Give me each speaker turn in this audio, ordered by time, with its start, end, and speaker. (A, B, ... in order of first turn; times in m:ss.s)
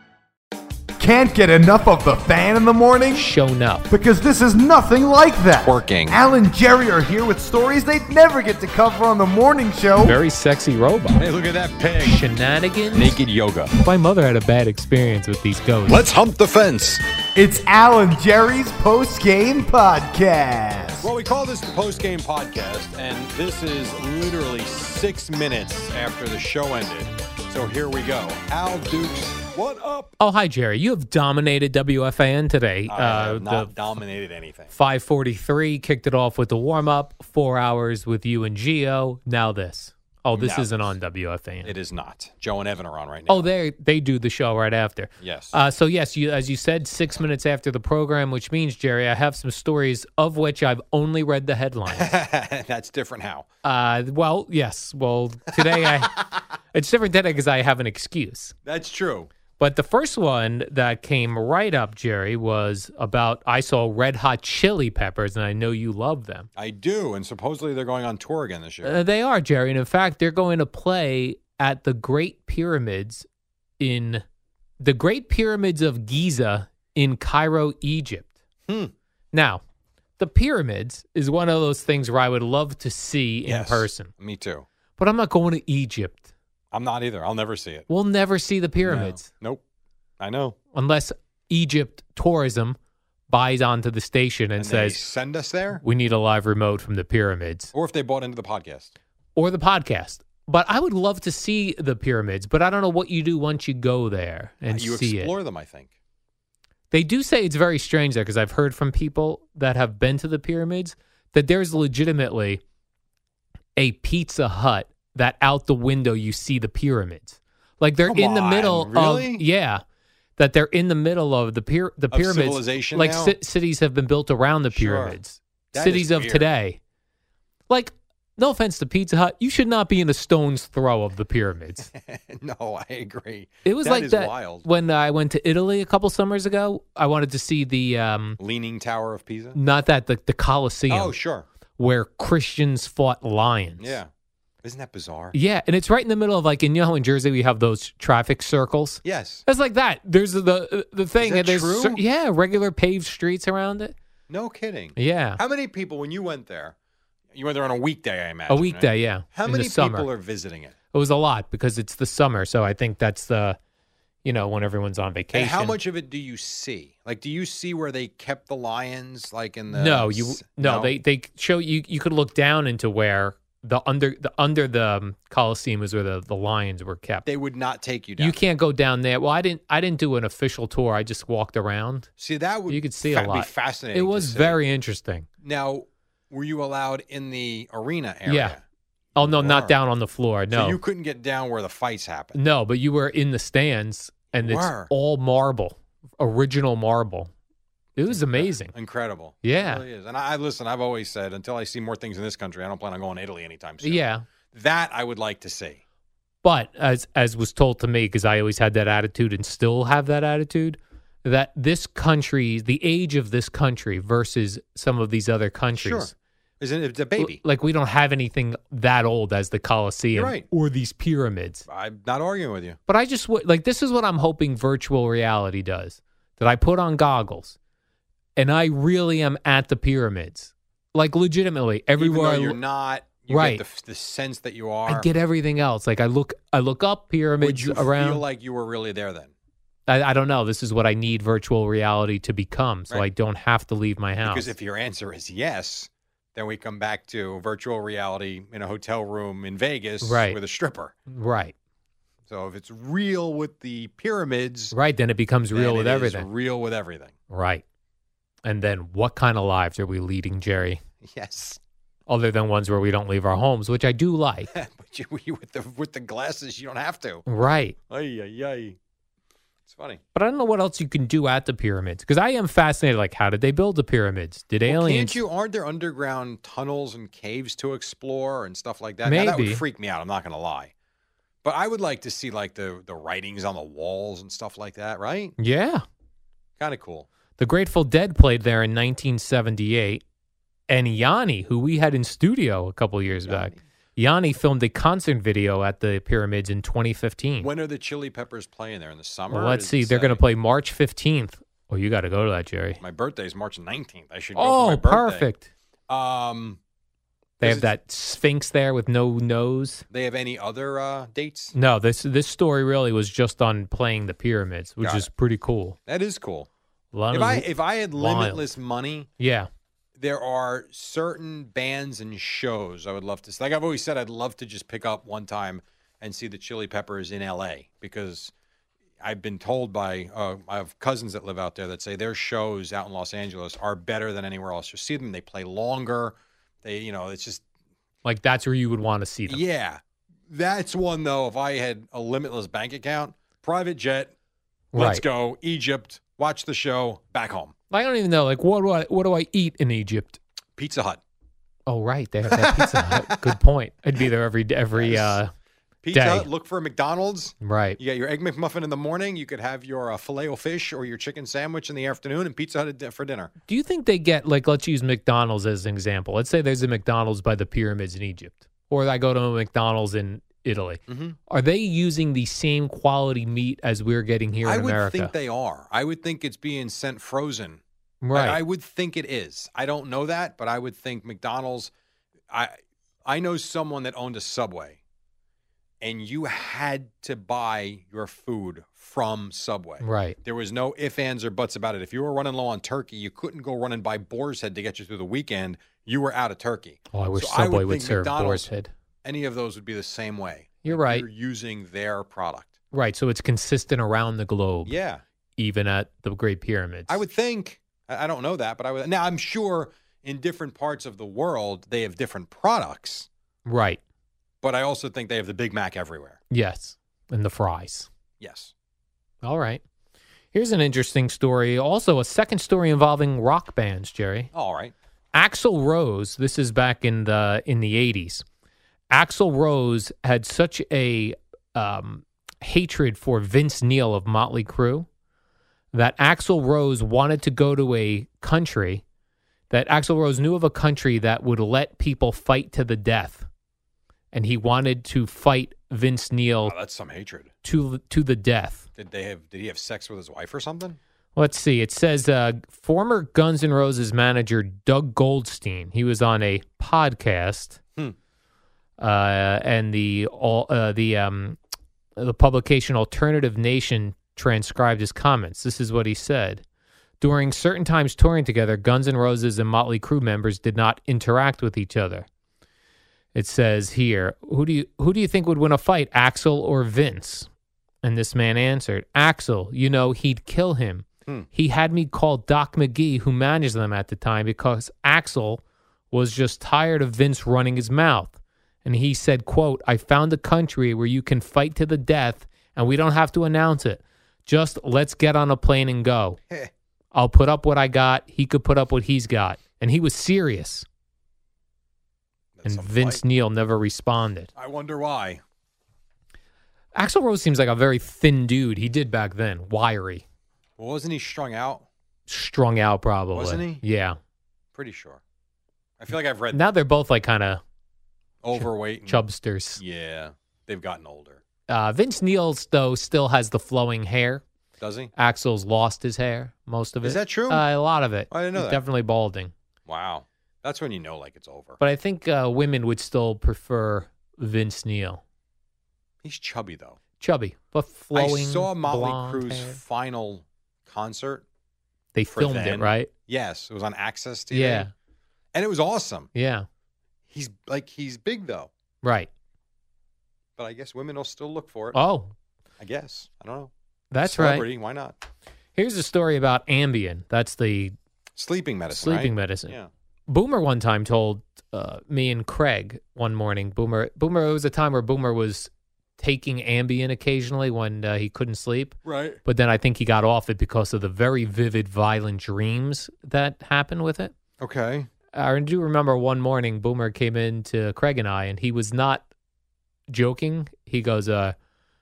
0:01.0-0:03.3 A
0:03.1-0:03.9 B
0:03.9-0:10.2 A
0:05.6-0:06.2 C
0:10.0-0:11.2 B
0:11.1-0:12.2 C
0:12.0-0:13.2 B
0:12.9-0:13.7 C
0:13.8-0:16.1 B
0:15.9-0:17.0 C
0:17.4-0:21.1 A
0:21.0-0:30.2 C
0:30.2-0:33.8 B
0:32.9-0:34.7 C
0:34.7-0:41.7 B
0:40.4-0:40.8 C
0:41.6-0:43.5 C
0:43.3-0:52.2 B
0:45.2-0:45.6 C
0:51.9-0:53.5 C
0:53.6-0:58.6 B
0:55.6-0:56.3 C
0:58.6-0:59.3 C
0:59.6-1:06.5 B
1:06.6-1:09.0 C
1:08.8-1:13.3 B
1:13.8-1:14.2 B
1:14.8-1:18.3 B
1:18.7-1:18.9 C
1:19.3-1:19.6 B
1:20.2-1:24.1 B
1:23.4-1:24.7 C
1:25.0-1:26.3 B
1:26.7-1:27.9 C
1:27.9-1:29.3 B
1:28.8-1:29.6 C
1:30.2-1:30.6 C
1:30.7-1:32.8 B
1:33.3-1:35.0 B
1:34.6-1:35.8 C
1:35.8-1:37.7 B
1:37.7-1:38.9 C
1:39.4-1:45.3 B
1:44.7-1:45.9 C
1:46.9-1:52.6 B
1:53.8-1:59.8 B
1:58.1-1:59.4 C
2:00.4-2:06.8 B
2:02.1-2:03.4 C
2:04.7-2:05.2 C
2:05.7-2:06.5 C
2:07.7-2:11.9 B
2:11.9-2:14.6 C
2:13.6-2:18.4 B
2:18.4-2:19.6 C
2:19.5-2:21.2 B
2:20.9-2:21.5 C
2:21.8-2:24.0 B
2:23.8-2:24.1 C
2:24.6-2:25.4 C
2:25.3-2:34.0 B
2:29.0-2:29.4 C
2:31.2-2:32.0 C
2:34.3-2:36.8 C
2:35.0-2:35.4 B
2:37.3-2:40.8 C
2:38.5-2:40.1 B
2:40.9-2:43.6 B
2:44.2-2:45.8 B
2:45.3-2:50.9 C
2:49.7-2:57.3 B
2:57.2-2:58.4 C
2:58.2-3:02.1 B
3:02.2-3:04.6 C
3:02.7-3:05.3 B
3:05.4-3:08.6 C
3:08.3-3:08.6 B
3:09.2-3:09.8 C
3:09.2-3:10.8 B
3:10.5-3:12.4 C
3:12.3-3:17.3 B
3:14.3-3:14.9 C
3:18.0-3:18.7 B
3:18.1-3:25.8 C
3:19.4-3:19.8 B
3:23.8-3:24.2 B
3:26.4-3:36.1 B
3:35.8-3:37.4 C
3:37.2-3:41.6 B
3:40.1-3:40.5 C
3:41.7-3:42.8 C
3:42.9-3:47.6 B
3:48.4-3:52.6 B
3:52.0-3:55.1 C
3:53.3-3:53.6 B
3:54.9-3:58.2 B
3:57.4-3:59.3 C
3:59.9-4:04.5 B
4:04.2-4:11.0 C
4:10.0-4:10.4 B
4:11.1-4:11.5 B
4:12.3-4:14.8 C
4:14.7-4:16.3 B
4:15.5-4:17.1 C
4:17.3-4:17.6 B
4:18.4-4:20.8 B
4:21.0-4:21.6 C
4:22.1-4:24.5 B
4:24.5-4:27.2 C
4:27.3-4:27.8 B
4:27.9-4:28.8 C
4:29.7-4:30.0 C
4:30.2-4:35.2 B
4:34.7-4:40.7 C
4:39.0-4:39.6 B
4:41.4-4:45.4 C
4:45.4-4:45.8 B
4:46.6-4:47.1 C
4:47.4-4:50.0 B
4:50.7-4:57.5 B
4:53.2-4:53.6 C
4:57.4-5:00.2 C
4:59.3-5:02.8 B
5:02.8-5:05.3 C
5:04.4-5:05.5 B
5:05.9-5:06.6 C
5:07.4-5:07.7 C
5:07.4-5:09.9 B
5:09.9-5:11.6 C
5:11.6-5:15.8 B
5:14.8-5:15.1 C
5:15.9-5:16.5 C
5:16.9-5:18.5 B
5:17.1-5:19.1 C
5:19.2-5:19.5 B
5:20.0-5:28.3 C
5:29.0-5:37.4 C
5:38.0-5:39.4 B
5:39.3-5:44.1 C
5:44.7-5:45.0 B
5:44.8-5:47.5 C
5:47.7-5:50.2 B
5:50.6-5:51.0 C
5:51.7-5:55.3 B
5:52.3-5:53.4 C
5:54.8-5:55.2 C
5:55.8-6:03.3 C
5:55.9-5:56.3 B
5:57.4-5:57.8 B
6:03.5-6:15.1 B
6:10.9-6:11.2 C
6:14.4-6:17.6 C
6:18.0-6:18.4 B
6:18.1-6:21.7 C
6:22.3-6:24.8 C
6:25.8-6:38.5 C
6:29.8-6:30.2 B
6:36.9-6:38.7 B
6:39.0-6:42.6 C
6:40.6-6:41.1 B
6:42.7-6:44.7 B
6:44.6-6:45.0 C
6:45.4-6:47.0 B
6:46.9-6:53.1 C
6:53.4-6:53.8 B
6:54.4-6:56.2 C
6:56.3-6:57.9 B
6:58.2-6:58.5 C
6:59.2-6:59.6 B
7:00.3-7:04.3 B
7:04.3-7:04.7 C
7:05.1-7:08.2 B
7:08.9-7:14.9 B
7:15.7-7:18.8 B
7:19.5-7:23.3 B
7:24.1-7:26.6 B
7:26.4-7:27.3 C
7:27.4-7:28.7 B
7:28.8-7:30.8 C
7:31.2-7:37.6 B
7:38.8-7:41.4 B
7:42.0-7:46.4 B
7:47.0-7:52.1 B
7:53.2-7:57.3 B
7:57.8-8:16.2 B
8:16.9-8:20.7 B
8:22.4-8:23.0 C
8:22.4-8:24.3 B
8:24.4-8:25.2 C
8:26.8-8:30.0 B
8:30.6-8:31.7 C
8:32.1-8:34.0 B
8:33.1-8:33.6 C
8:34.5-8:35.0 C
8:35.8-8:36.4 C
8:36.3-8:37.4 B
8:38.2-8:39.0 C
8:38.4-8:39.6 B
8:39.6-8:41.2 C
8:41.5-8:44.2 B
8:44.6-8:44.9 C
8:45.0-8:49.3 B
8:46.8-8:47.4 C
8:48.1-8:48.6 C
8:49.7-8:51.6 C
8:51.6-8:55.0 B
8:56.0-8:56.8 C
8:57.0-8:59.6 B
8:57.9-9:01.2 C
9:02.0-9:02.9 B
9:02.1-9:04.7 C
9:04.3-9:04.7 B
9:05.3-9:06.1 C
9:06.2-9:06.5 B
9:07.1-9:08.5 C
9:08.8-9:09.1 B
9:10.4-9:11.8 C
9:11.7-9:12.1 B
9:12.6-9:13.5 C
9:13.9-9:14.5 B
9:14.0-9:15.0 C
9:15.6-9:17.8 B
9:18.2-9:19.7 C
9:18.7-9:19.6 B
9:20.1-9:34.1 B
9:28.8-9:29.2 C
9:34.4-9:34.9 C
9:35.1-9:39.1 B
9:39.9-9:41.4 B